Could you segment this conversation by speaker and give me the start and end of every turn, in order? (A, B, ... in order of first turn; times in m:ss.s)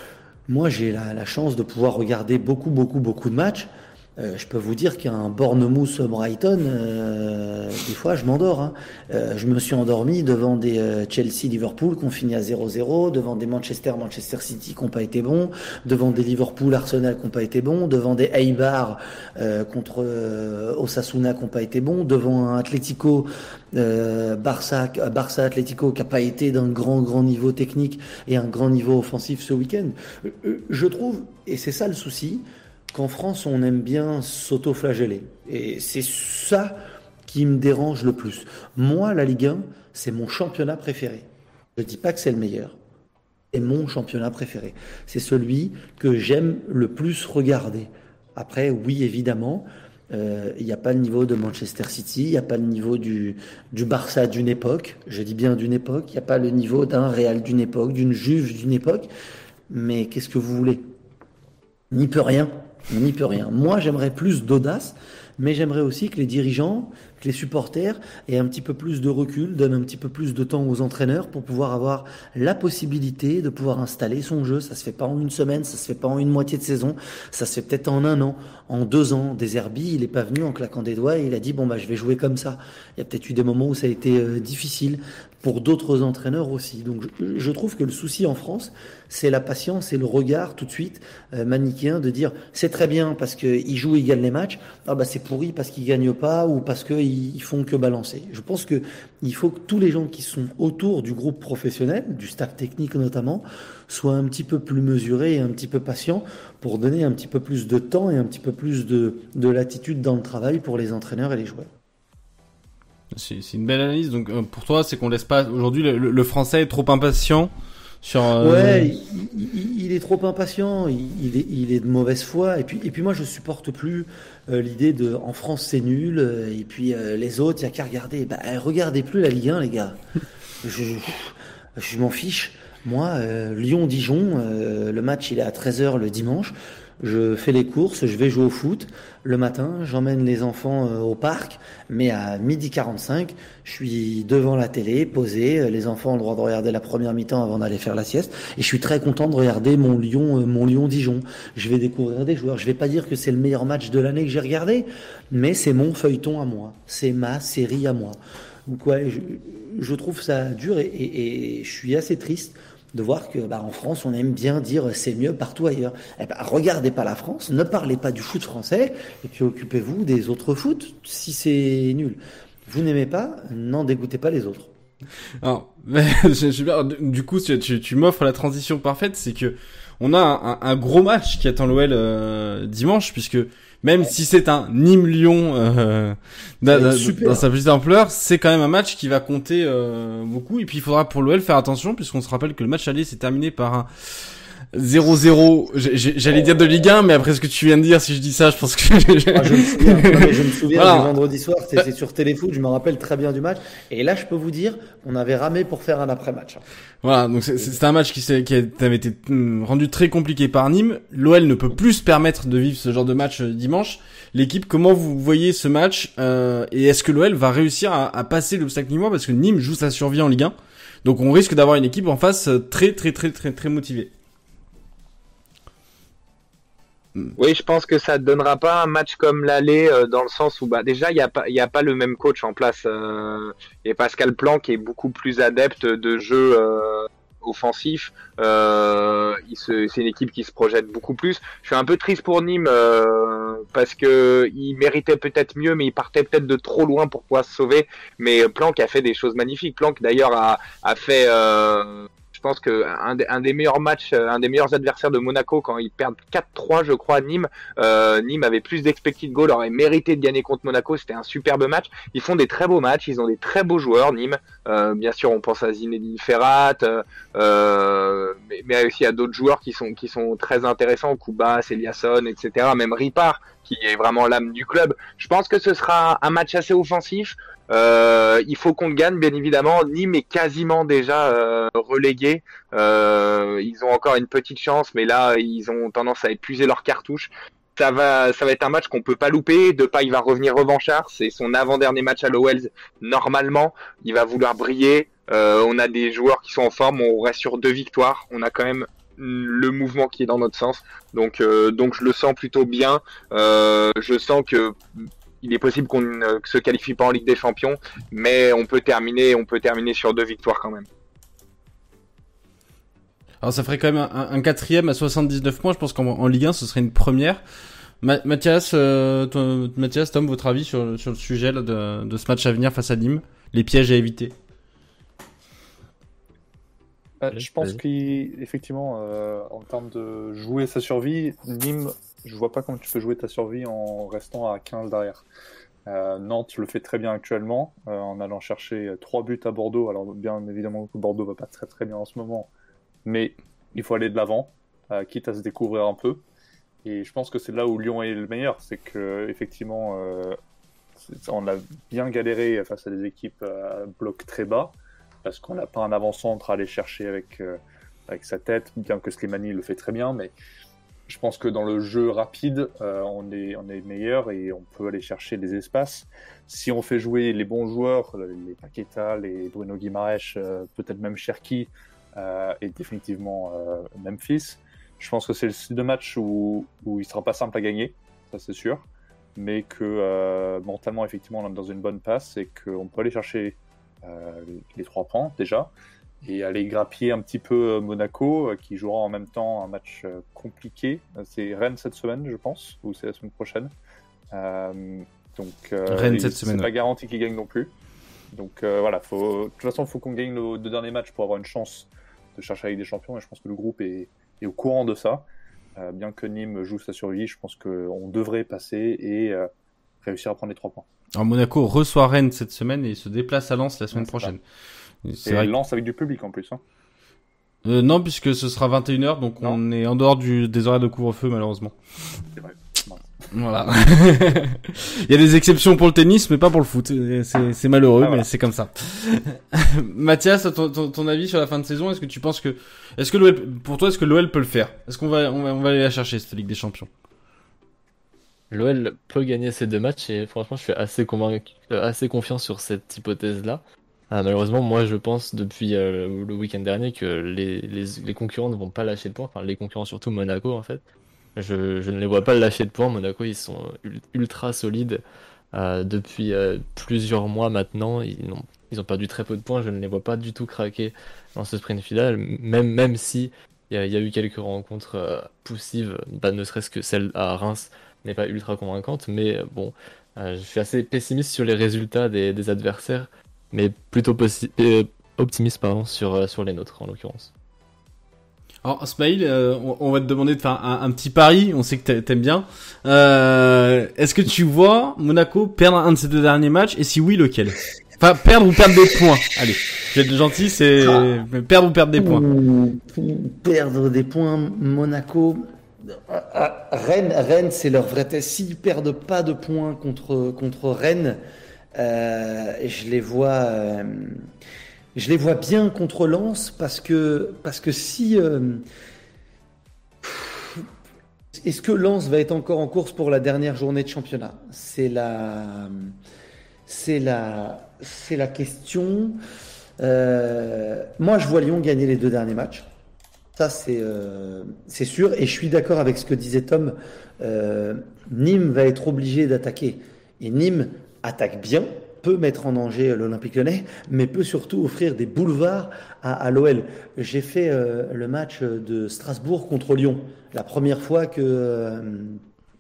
0:00.5-0:42.8 A
0:43.5-0:59.1 A
0:59.7-1:00.8 A
1:01.9-1:51.7 A
1:53.1-1:57.5 B
1:58.0-1:58.9 B
1:58.4-2:10.0 A
2:10.6-2:54.7 A
2:55.4-3:13.9 B
3:06.7-3:07.4 A
3:14.7-3:21.1 B
3:19.3-3:26.6 A
3:27.0-3:44.1 B
3:47.4-5:04.8 C
5:05.4-5:10.9 C
5:13.4-5:17.4 B
5:18.0-5:24.3 B
5:27.2-5:35.3 D
5:27.3-5:27.8 E
5:35.9-5:42.5 D
5:43.0-5:46.2 D
5:46.8-5:50.4 D
5:51.1-6:00.3 D
6:01.1-6:25.7 D
6:26.2-6:33.7 D
6:34.3-6:37.7 D
6:35.9-6:36.7 B
6:38.3-6:49.5 D
6:50.0-6:50.9 D
6:51.2-6:54.4 B
6:53.9-6:54.4 D
6:55.0-6:55.5 B
6:55.2-6:56.6 D
6:57.6-7:01.8 B
7:02.4-7:03.1 D
7:03.3-7:16.9 B
7:08.0-7:08.3 D
7:18.5-7:30.8 E
7:31.4-7:35.0 E
7:35.5-7:57.3 E
7:58.6-8:12.2 B
8:10.8-8:11.0 A
8:12.0-8:21.2 A
8:21.8-8:24.3 A
8:25.0-8:28.6 A
8:30.0-8:30.7 A
8:31.3-8:35.9 A
8:36.7-8:39.2 A
8:39.8-8:42.7 A
8:43.4-9:02.2 A